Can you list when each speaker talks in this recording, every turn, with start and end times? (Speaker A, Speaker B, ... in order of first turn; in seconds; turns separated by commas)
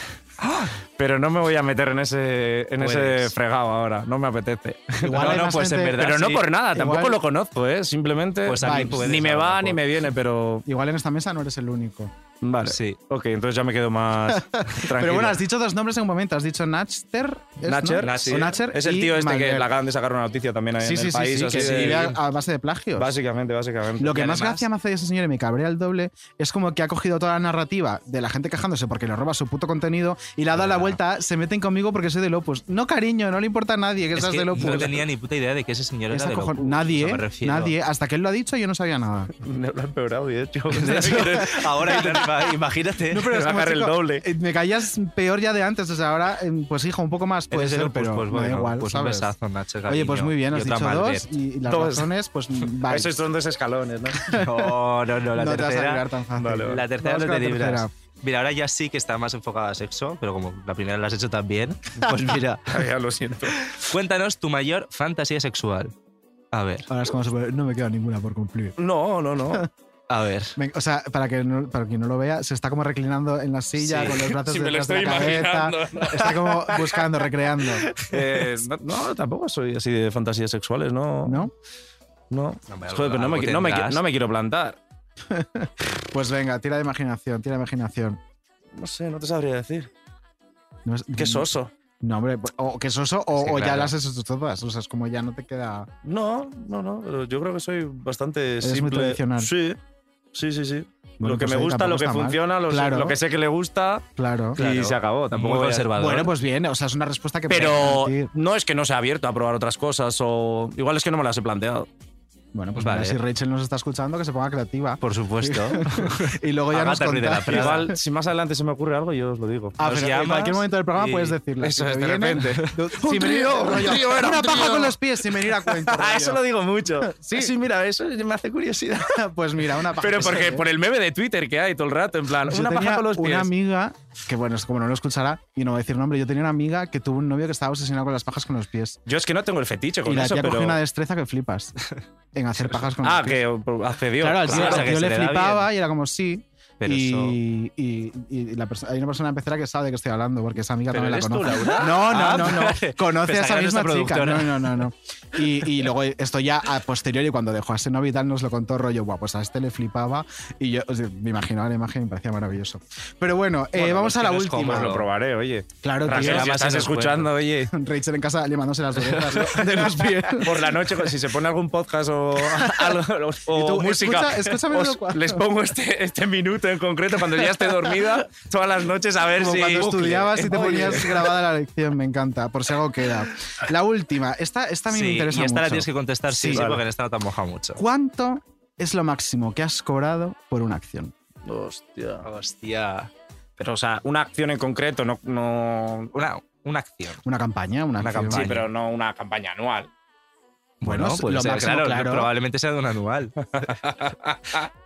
Speaker A: 0.4-0.7, Speaker B: 1.0-5.4, Speaker A: 2.8-3.3, Speaker C: 5.0-6.1, Speaker A: 5.1-6.5, Speaker B: 6.0-10.7, Speaker C: 6.7-7.2, Speaker A: 8.5-9.8, Speaker C: 8.6-9.3, Speaker C: 10.7-12.1, Speaker B: 12.4-15.4, Speaker A: 12.7-13.0, Speaker C: 14.3-19.7, Speaker B: 17.7-22.2, Speaker A: 18.0-18.6, Speaker C: 20.8-23.1, Speaker B: 23.0-24.2, Speaker C: 24.0-35.1, Speaker A: 24.1-24.6, Speaker A: 30.6-31.0, Speaker A: 34.2-37.8, Speaker C: 36.1-39.3, Speaker B: 39.4-42.0, Speaker A: 40.7-43.3, Speaker C: 41.8-42.3, Speaker C: 43.1-49.4, Speaker B: 43.3-44.2, Speaker A: 47.5-51.3, Speaker C: 49.9-53.2, Speaker B: 51.7-52.1, Speaker B: 52.9-54.3, Speaker C: 54.2-54.7, Speaker A: 54.3-56.1, Speaker C: 55.3-57.9, Speaker B: 56.4-56.8, Speaker A: 56.6-62.7, Speaker B: 62.7-63.6, Speaker A: 63.7-65.9, Speaker A: 66.5-66.9, Speaker C: 66.9-68.8, Speaker B: 68.8-69.7, Speaker A: 70.1-70.6, Speaker C: 70.6-77.9, Speaker A: 73.8-74.2, Speaker B: 74.3-76.3, Speaker B: 78.1-81.4, Speaker C: 81.2-81.5, Speaker B: 82.3-84.8, Speaker A: 82.7-84.0, Speaker C: 85.3-88.2, Speaker B: 88.8-89.9, Speaker C: 90.8-91.5, Speaker B: 91.2-91.7, Speaker C: 92.0-95.9, Speaker A: 93.4-93.9, Speaker B: 96.0-99.8, Speaker C: 98.6-99.5, Speaker B: 100.3-104.0, Speaker C: 101.2-103.2, Speaker C: 104.2-104.6, Speaker B: 104.6-105.9, Speaker A: 104.6-106.3, Speaker C: 105.9-108.3, Speaker B: 107.5-111.9, Speaker C: 112.5-118.0, Speaker A: 112.8-113.2, Speaker A: 115.0-117.9, Speaker B: 117.5-120.3, Speaker C: 119.8-126.4, Speaker A: 119.8-120.6, Speaker B: 121.0-129.2, Speaker C: 127.0-127.5, Speaker C: 129.1-130.7, Speaker B: 130.0-133.5, Speaker C: 132.5-139.0, Speaker B: 139.1-140.8, Speaker C: 140.1-141.8, Speaker C: 142.3-143.4, Speaker B: 143.0-145.0, Speaker C: 144.2-165.0, Speaker A: 144.5-145.7, Speaker A: 146.8-147.4, Speaker A: 150.9-154.8, Speaker A: 163.8-165.1, Speaker B: 164.6-167.7, Speaker C: 165.8-166.6, Speaker A: 166.1-167.3, Speaker C: 167.7-170.7, Speaker A: 169.0-169.9, Speaker B: 170.4-181.1, Speaker C: 172.5-175.4, Speaker C: 179.4-186.7, Speaker A: 179.8-181.1, Speaker A: 184.9-187.8, Speaker B: 186.5-186.8, Speaker C: 187.8-191.1, Speaker B: 191.5-192.3, Speaker A: 192.2-193.1, Speaker B: 193.6-196.1, Speaker A: 196.2-197.2, Speaker C: 197.2-198.4, Speaker A: 198.0-198.7, Speaker B: 198.3-199.9, Speaker C: 200.8-202.3, Speaker A: 200.8-203.4, Speaker B: 203.5-204.6